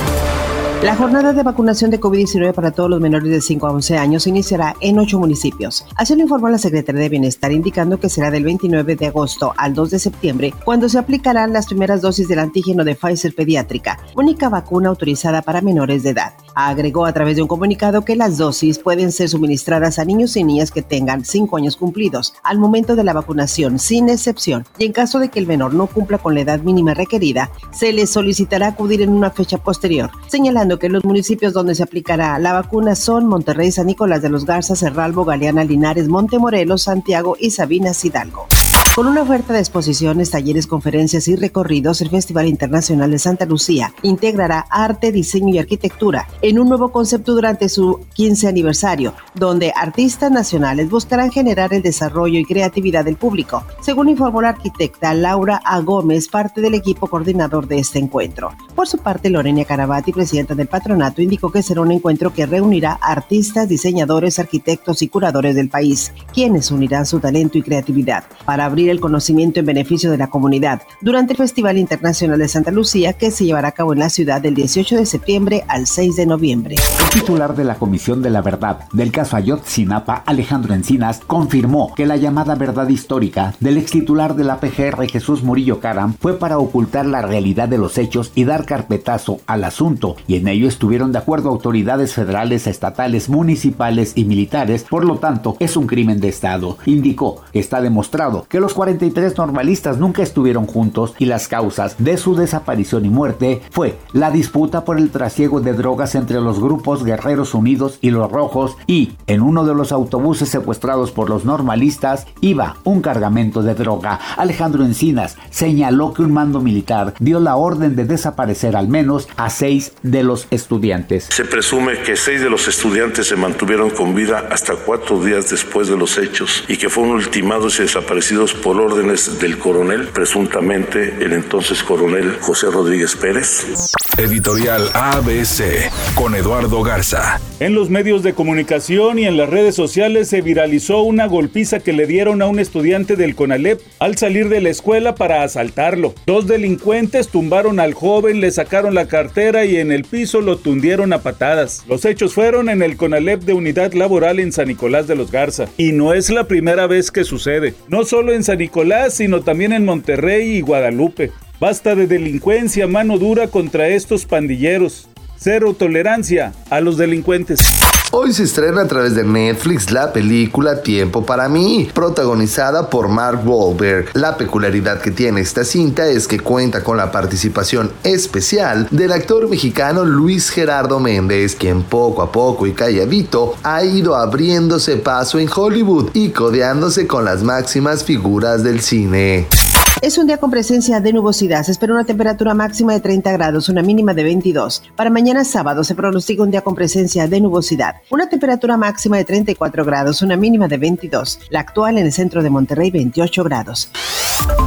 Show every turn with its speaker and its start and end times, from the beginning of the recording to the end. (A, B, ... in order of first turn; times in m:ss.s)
0:00.8-1:16.8 A
1:17.0-2:01.3 B
2:01.3-2:13.7 C
2:14.2-2:17.6 D
2:17.6-2:47.7 E
2:22.4-2:24.0 D
2:24.6-2:28.1 D
2:37.1-2:37.9 D
2:48.1-3:09.5 F
3:10.0-3:23.9 A